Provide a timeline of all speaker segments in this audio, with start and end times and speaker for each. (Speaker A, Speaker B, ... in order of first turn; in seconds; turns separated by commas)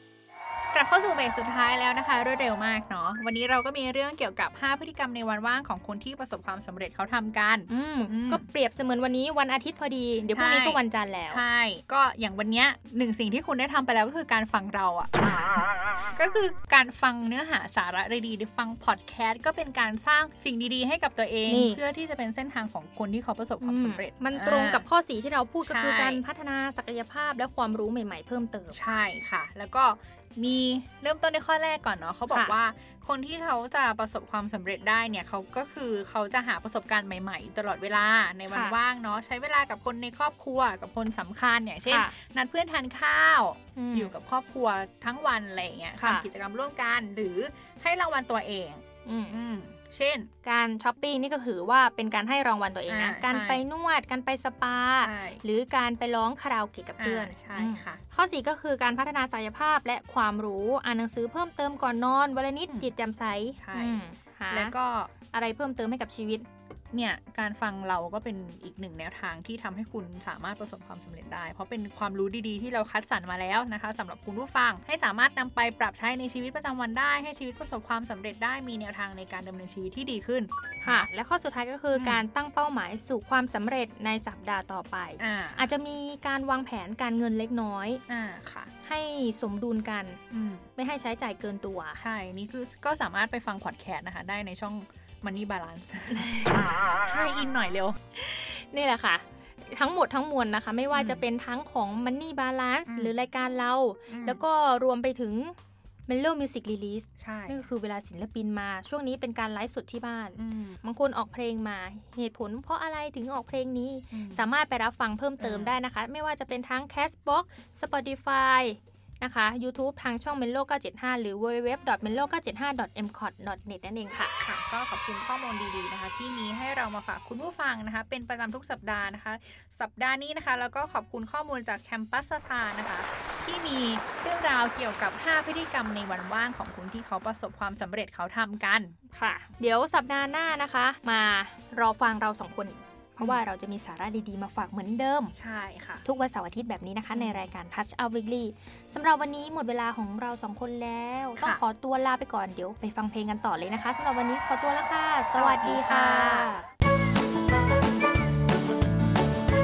Speaker A: 0.7-8.5, Speaker B: 7.7-11.4, Speaker A: 10.3-24.9, Speaker B: 21.5-21.8, Speaker B: 23.6-28.8, Speaker A: 25.6-26.2, Speaker A: 28.7-50.3, Speaker B: 32.3-32.5, Speaker B: 38.5-38.8, Speaker B: 41.8-42.1, Speaker B: 43.8-44.1, Speaker B: 46.0-46.3, Speaker B: 49.0-49.4, Speaker B: 50.4-64.7, Speaker A: 52.9-53.6, Speaker A: 55.0-55.4, Speaker A: 57.0-58.0, Speaker A: 63.6-65.1, Speaker B: 65.3-66.5, Speaker A: 66.9-81.1, Speaker B: 80.8-88.0, Speaker A: 81.9-82.2, Speaker A: 85.2-85.7, Speaker A: 88.1-88.7, Speaker B: 88.8-90.2, Speaker A: 90.3-90.7, Speaker B: 90.8-92.0, Speaker A: 92.0-98.0, Speaker B: 96.1-96.7, Speaker B: 98.2-105.6, Speaker A: 100.9-101.2, Speaker A: 102.9-103.1, Speaker A: 104.1-104.4, Speaker B: 106.1-124.3, Speaker A: 107.2-107.7, Speaker A: 110.4-110.8, Speaker A: 114.1-114.5, Speaker A: 115.4-115.8, Speaker A: 124.4-139.0, Speaker B: 139.1-145.3, Speaker A: 145.3-146.1, Speaker B: 146.1-156.7, Speaker A: 147.1-147.5, Speaker A: 155.3-156.5